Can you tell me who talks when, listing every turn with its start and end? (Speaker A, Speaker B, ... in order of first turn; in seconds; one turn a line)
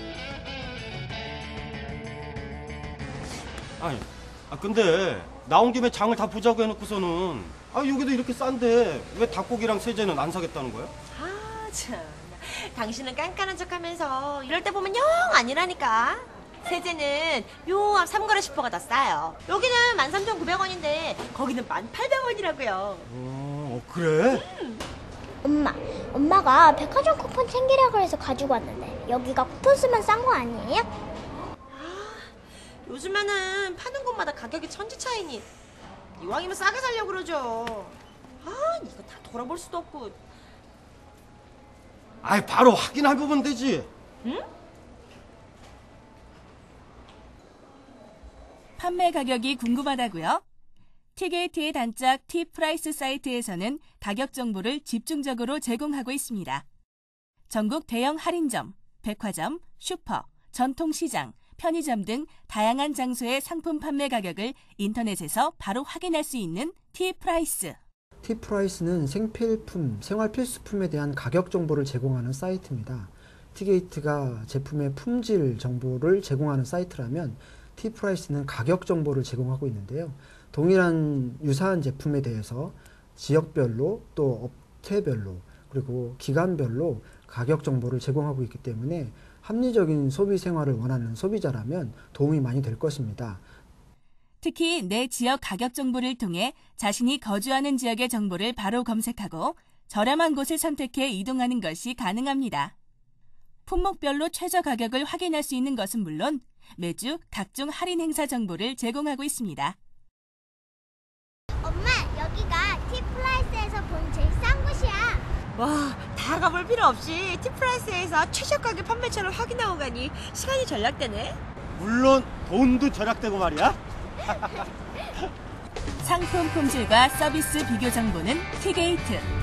Speaker A: 3.8-10.9
Speaker B: 11.1-23.1
Speaker A: 23.1-24.4
Speaker B: 24.5-24.8
Speaker C: 25.4-30.9
Speaker B: 31.7-35.5
Speaker B: 36.2-40.2
Speaker A: 42.2-43.9
Speaker D: 48.8-50.4
Speaker D: 51.1-56.6
Speaker D: 57.5-67.8
Speaker E: 68.2-93.4
Speaker D: 94.4-102.7
Speaker D: 103.7-109.8
Speaker C: 111.6-115.2
Speaker B: 115.5-121.4
Speaker A: 121.8-124.6
Speaker D: 126.0-129.3